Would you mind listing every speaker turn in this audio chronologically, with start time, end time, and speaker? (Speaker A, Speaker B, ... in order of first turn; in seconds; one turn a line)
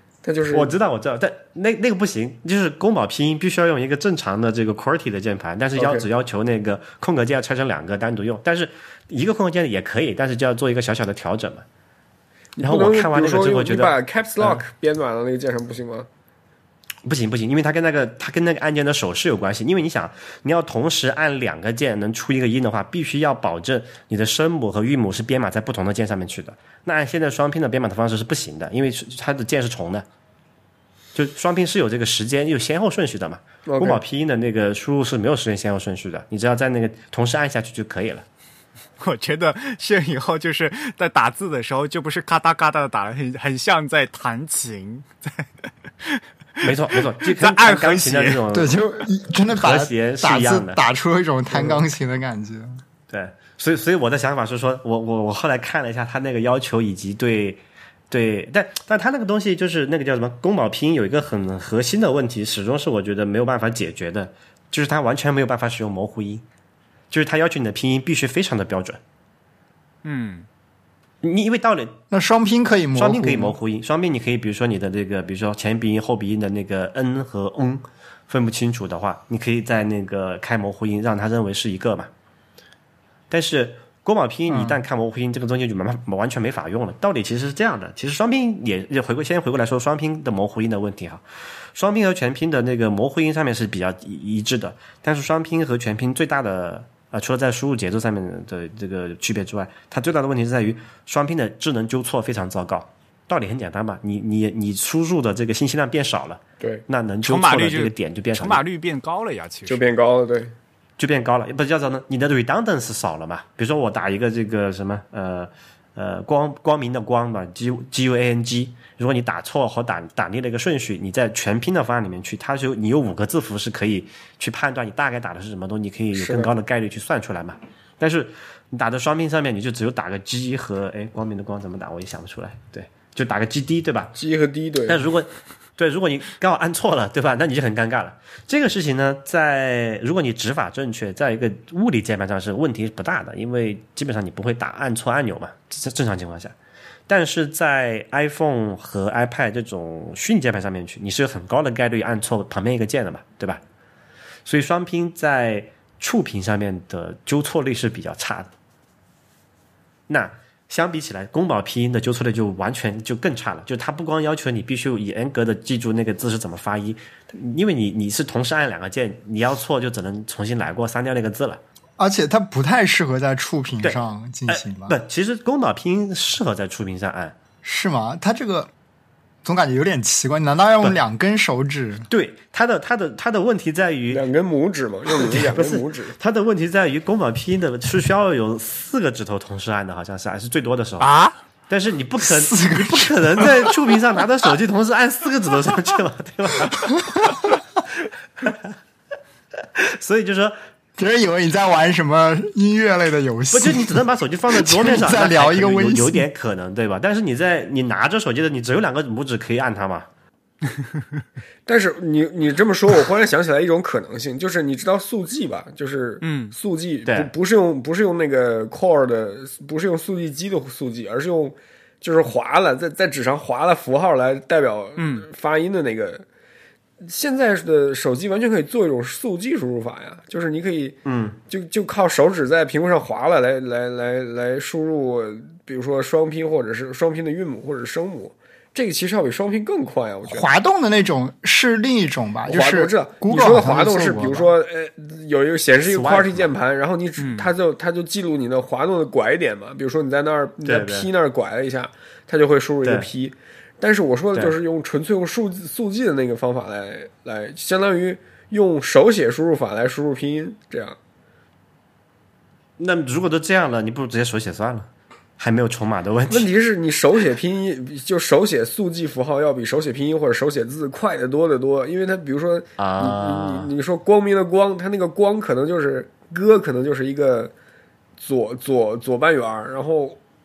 Speaker A: 0.2-0.7
Speaker B: 0.5-11.7
Speaker A: 5.8-6.1
Speaker A: 12.6-16.1
Speaker B: 12.6-14.6
Speaker B: 17.1-30.1
Speaker B: 31.1-38.2
Speaker A: 33.7-34.0
Speaker C: 39.0-45.5
Speaker C: 46.0-48.4
Speaker B: 46.6-48.9
Speaker D: 48.5-52.8
Speaker B: 49.5-50.8
Speaker B: 53.1-66.4
Speaker B: 67.1-69.0
Speaker C: 70.0-70.5
Speaker B: 71.2-72.0
Speaker D: 72.1-73.6
Speaker B: 73.0-82.1
Speaker B: 83.3-91.2
Speaker B: 91.8-108.6
Speaker C: 107.2-109.8
Speaker A: 109.7-110.5
Speaker B: 111.0-134.2
Speaker A: 126.2-126.5
Speaker A: 134.2-135.1
Speaker B: 134.9-146.5
Speaker B: 147.1-153.6
Speaker B: 154.5-158.5
Speaker B: 160.1-171.6
Speaker D: 172.0-175.0
Speaker B: 173.8-177.3
Speaker D: 177.6-178.7
Speaker D: 179.4-182.1
Speaker B: 182.1-184.2
Speaker A: 184.1-186.2
Speaker B: 185.1-191.1
Speaker C: 191.0-191.4
Speaker B: 191.7-197.4
Speaker D: 192.2-194.0
Speaker D: 196.9-197.3
Speaker B: 199.8-200.6
Speaker D: 201.0-206.3
Speaker B: 203.5-210.1
Speaker A: 211.7-226.2
Speaker C: 216.2-216.6
Speaker C: 225.0-225.3
Speaker A: 227.0-231.0
Speaker B: 231.1-231.4
Speaker A: 231.5-240.5
Speaker D: 240.3-244.5
Speaker A: 242.5-261.0
Speaker B: 245.8-246.5
Speaker C: 247.2-247.5
Speaker B: 250.7-251.1
Speaker B: 252.8-253.1
Speaker B: 262.8-266.5
Speaker A: 266.3-277.5
Speaker B: 272.8-273.7
Speaker A: 278.2-280.2